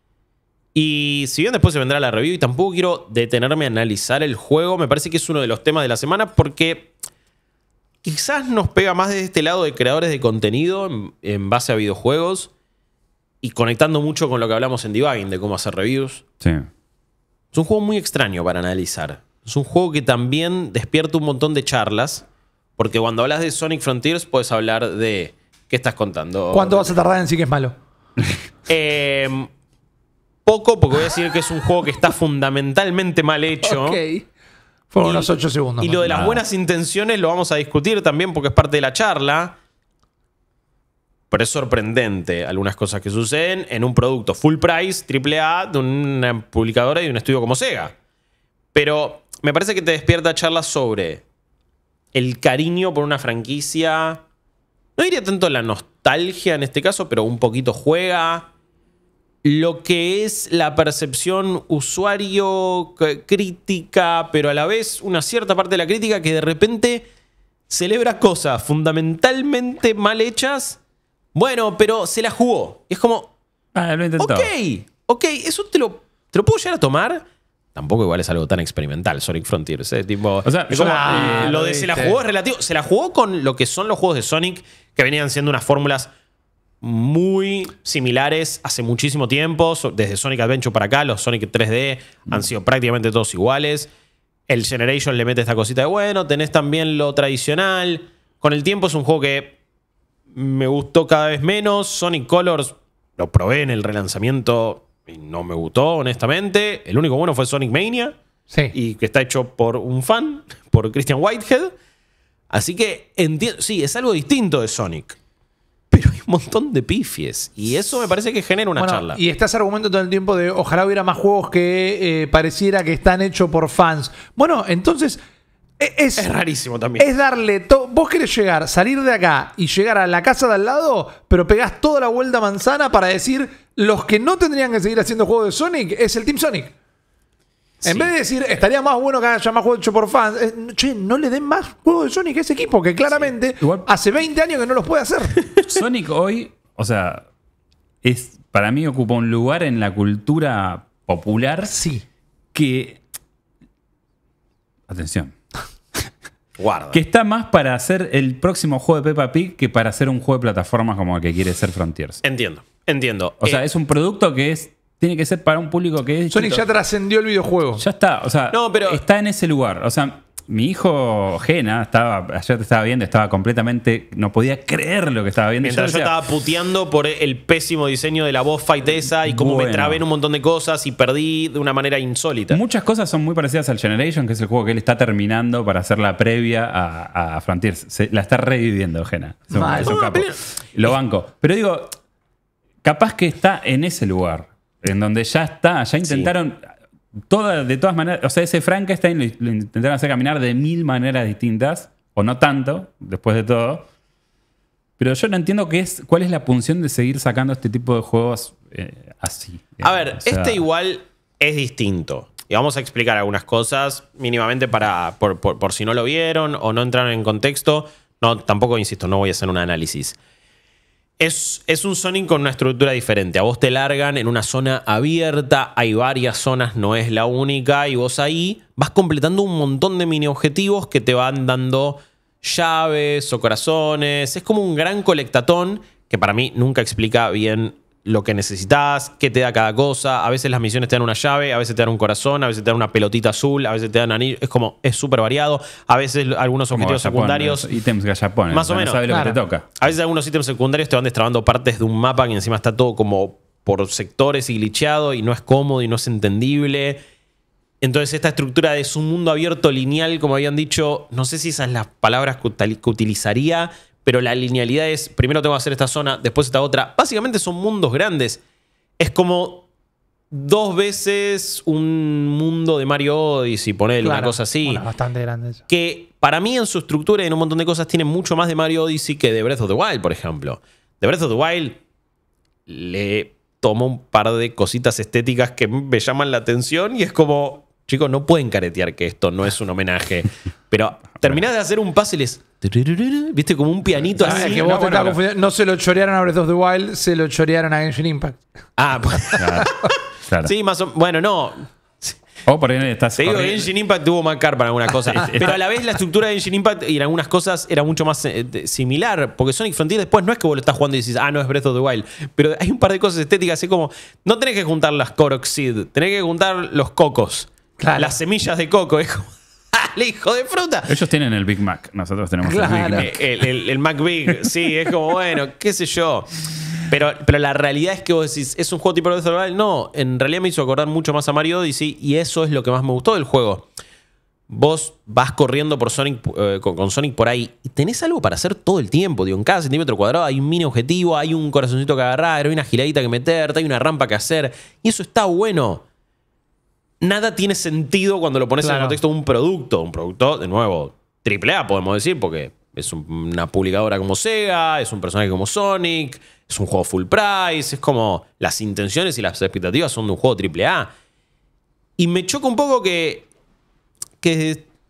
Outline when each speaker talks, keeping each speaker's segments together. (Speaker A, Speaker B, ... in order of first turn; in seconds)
Speaker A: 0.8-6.9, 8.0-12.5, 13.4-16.2, 17.5-22.3, 22.8-26.9, 28.7-29.5, 30.4-34.0, 35.0-39.5, 41.3-47.9, 48.7-51.2, 52.1-54.2, 55.0-58.5, 59.4-67.1, 67.7-70.8, 71.3-73.3, 74.2-86.1, 86.8-93.9, 94.5-99.6, 100.3-108.2, 108.7-111.7, 112.5-115.2, 115.9-119.2, 126.2-127.1, 156.6-157.0, 162.2-163.6, 168.5-169.0, 175.6-182.6, 189.7-190.4, 196.0-196.3, 209.8-220.2, 221.2-247.7, 248.5-249.2, 249.8-257.0, 257.8-268.4, 269.0-269.7, 270.3-274.8, 275.7-281.8, 282.7-295.2, 298.8-302.2, 303.2-321.0, 322.9-333.7, 334.5-345.8, 347.0-360.9, 362.0-363.3, 364.2-364.7
Speaker B: 16.4-16.7, 36.0-36.4, 73.7-74.5, 80.5-81.6, 143.6-143.9, 145.6-147.2, 148.0-151.8, 152.5-153.0, 154.9-155.4, 156.9-162.2, 163.4-166.6, 167.8-176.1, 179.2-180.0, 182.5-191.9, 192.8-196.7, 197.3-203.9, 205.0-210.6, 246.7-249.8, 294.2-295.1, 299.4-299.7, 300.3-300.5, 302.5-303.7, 305.1-305.6, 320.9-323.2
Speaker C: 26.5-27.8, 33.6-34.3, 34.9-36.1, 80.7-82.2, 118.8-125.2, 125.8-126.3, 127.0-136.7, 137.8-145.4, 151.7-152.0, 166.3-167.8, 189.5-190.0, 249.1-249.4, 274.0-275.6, 294.2-298.4, 299.3-299.7, 317.8-318.2, 322.4-323.2, 348.6-349.0